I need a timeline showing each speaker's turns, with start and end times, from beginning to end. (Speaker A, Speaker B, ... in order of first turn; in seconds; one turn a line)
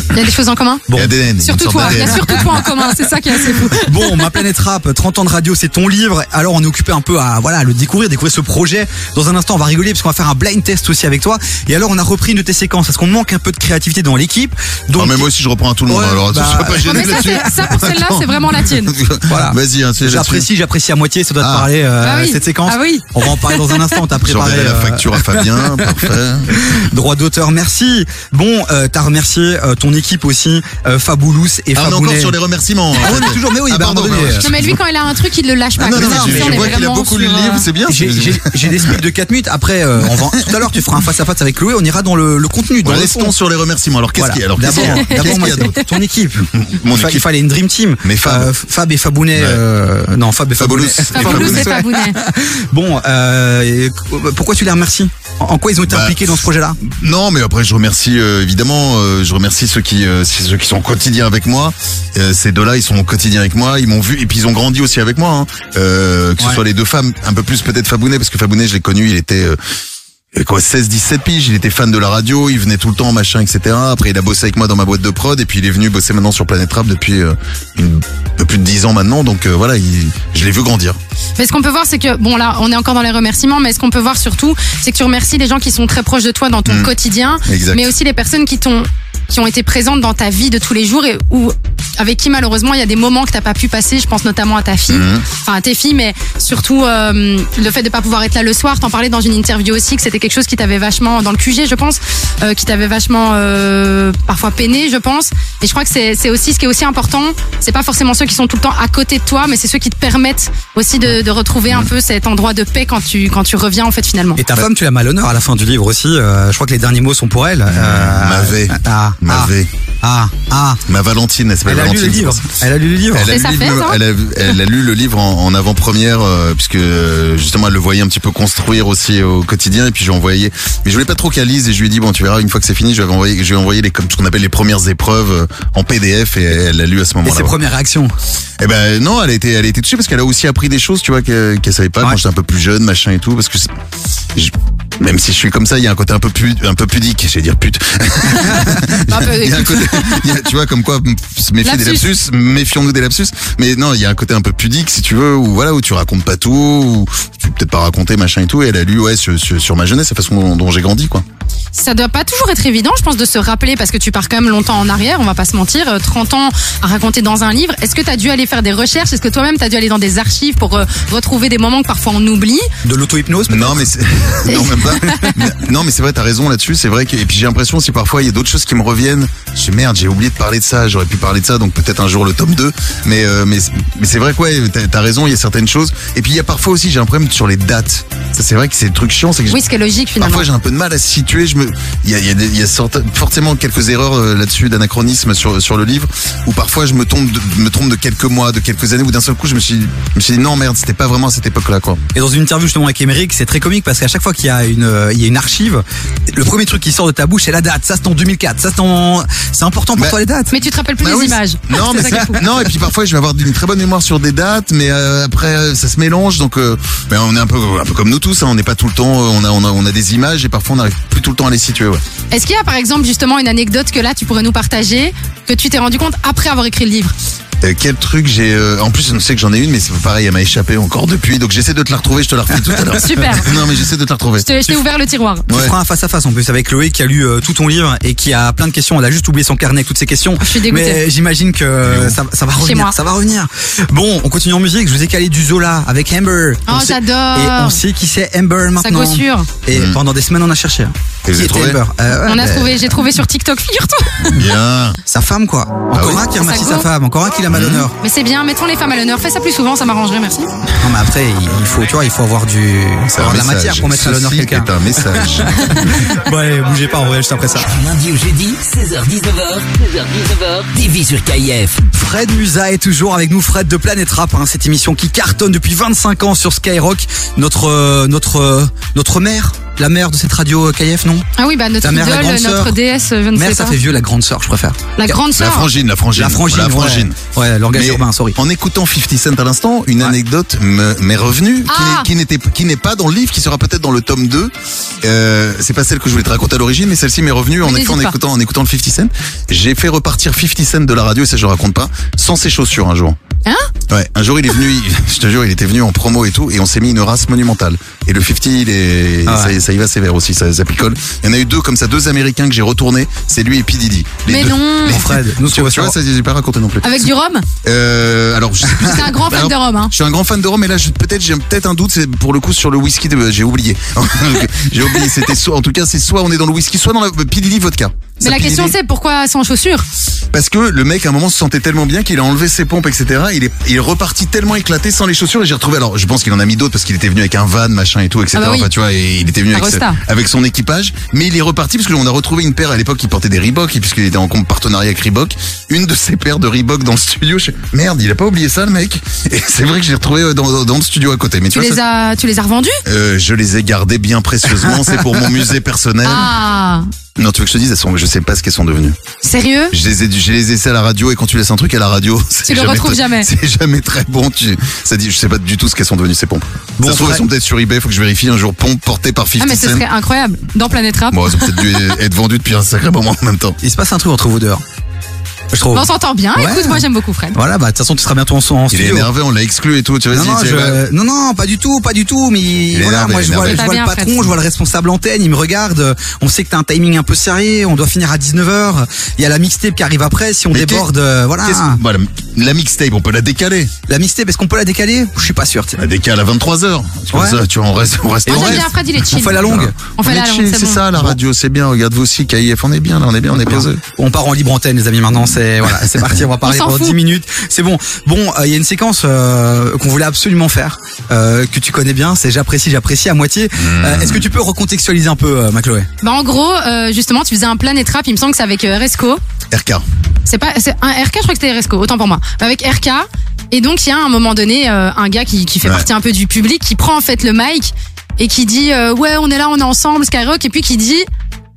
Speaker A: 0.1-0.9
Speaker B: 0.9-2.6
Speaker A: 1.4-4.4
Speaker C: 1.8-2.4
Speaker C: 3.8-15.3
Speaker B: 14.9-20.5
Speaker C: 15.9-17.5
Speaker A: 16.9-18.9
Speaker C: 19.3-32.4
Speaker B: 21.4-21.7
Speaker A: 22.0-24.0
Speaker B: 24.2-26.8
Speaker B: 31.8-34.8
Speaker C: 33.0-34.5
Speaker A: 34.4-37.6
Speaker B: 35.8-39.0
Speaker C: 35.8-36.8
Speaker C: 37.9-43.3
Speaker B: 40.1-40.5
Speaker B: 42.8-45.8
Speaker C: 44.2-56.8
Speaker A: 44.7-45.9
Speaker B: 46.5-47.3
Speaker B: 48.0-48.5
Speaker B: 49.4-49.6
Speaker B: 50.6-51.7
Speaker A: 51.1-52.2
Speaker B: 55.9-69.6
Speaker B: 70.3-81.0
Speaker A: 81.4-114.4
Speaker B: 86.7-86.9
Speaker B: 87.5-87.9
Speaker B: 94.9-95.2
Speaker C: 114.4-120.8
Speaker B: 117.7-119.7
Speaker B: 120.9-122.5
Speaker C: 121.7-123.3
Speaker B: 123.1-137.6
Speaker A: 123.3-124.0
Speaker C: 137.2-138.1
Speaker B: 138.6-143.7
Speaker B: 144.3-161.2
Speaker A: 149.0-150.3
Speaker A: 151.6-152.1
Speaker A: 161.7-172.7
Speaker C: 172.8-173.8
Speaker B: 173.5-189.6
Speaker A: 174.5-175.4
Speaker A: 189.5-190.5
Speaker B: 190.2-202.0
Speaker C: 202.1-210.5
Speaker A: 210.5-212.4
Speaker B: 211.0-222.0
Speaker A: 222.3-227.1
Speaker B: 227.6-234.7
Speaker A: 232.9-233.5
Speaker A: 234.4-235.5
Speaker B: 235.5-235.7
Speaker C: 235.5-253.0
Speaker A: 240.4-241.0
Speaker B: 241.8-242.2
Speaker A: 242.6-242.9
Speaker A: 246.7-247.8
Speaker A: 248.8-249.5
Speaker B: 249.7-250.0
Speaker B: 251.2-251.8
Speaker A: 252.2-254.4
Speaker B: 254.2-255.0
Speaker C: 255.1-257.9
Speaker B: 255.9-256.2
Speaker A: 256.4-256.9
Speaker B: 257.5-257.9
Speaker A: 258.0-260.5
Speaker C: 260.8-267.7
Speaker B: 263.1-266.0
Speaker D: 267.6-271.9
Speaker C: 271.9-281.2
Speaker A: 281.4-283.8
Speaker C: 281.8-282.8
Speaker C: 283.4-285.2
Speaker A: 285.0-285.7
Speaker B: 285.4-287.1
Speaker C: 286.1-288.4
Speaker B: 287.7-303.2
Speaker A: 291.7-292.1
Speaker A: 297.6-298.1
Speaker B: 303.9-317.1
Speaker C: 309.2-309.6
Speaker A: 314.3-315.1
Speaker C: 314.8-316.0
Speaker A: 316.8-317.5
Speaker B: 317.6-328.8
Speaker A: 318.8-319.9
Speaker A: 328.2-329.9
Speaker B: 330.3-351.8
Speaker A: 338.4-338.7
Speaker A: 339.5-340.0
Speaker A: 351.5-352.8
Speaker B: 352.9-356.3
Speaker A: 356.0-356.9
Speaker B: 357.1-359.0
Speaker A: 359.2-359.7
Speaker B: 359.7-369.9
Speaker A: 362.4-363.3
Speaker C: 366.8-367.2
Speaker A: 369.4-371.8
Speaker B: 371.1-373.6
Speaker C: 373.6-374.6
Speaker C: 375.5-376.8
Speaker A: 375.7-377.4
Speaker C: 377.4-379.1
Speaker B: 378.7-380.8
Speaker C: 380.1-391.8
Speaker B: 382.7-383.6
Speaker A: 383.5-384.3
Speaker B: 390.5-390.9
Speaker B: 391.4-393.7
Speaker C: 393.9-395.8
Speaker B: 395.8-398.7
Speaker C: 397.1-397.4
Speaker C: 398.3-399.8
Speaker A: 398.3-400.9
Speaker B: 399.4-403.8
Speaker C: 403.3-415.9
Speaker B: 405.6-406.2
Speaker A: 406.4-406.9
Speaker B: 413.6-414.3
Speaker A: 416.0-419.2
Speaker B: 419.5-419.9
Speaker A: 420.3-431.1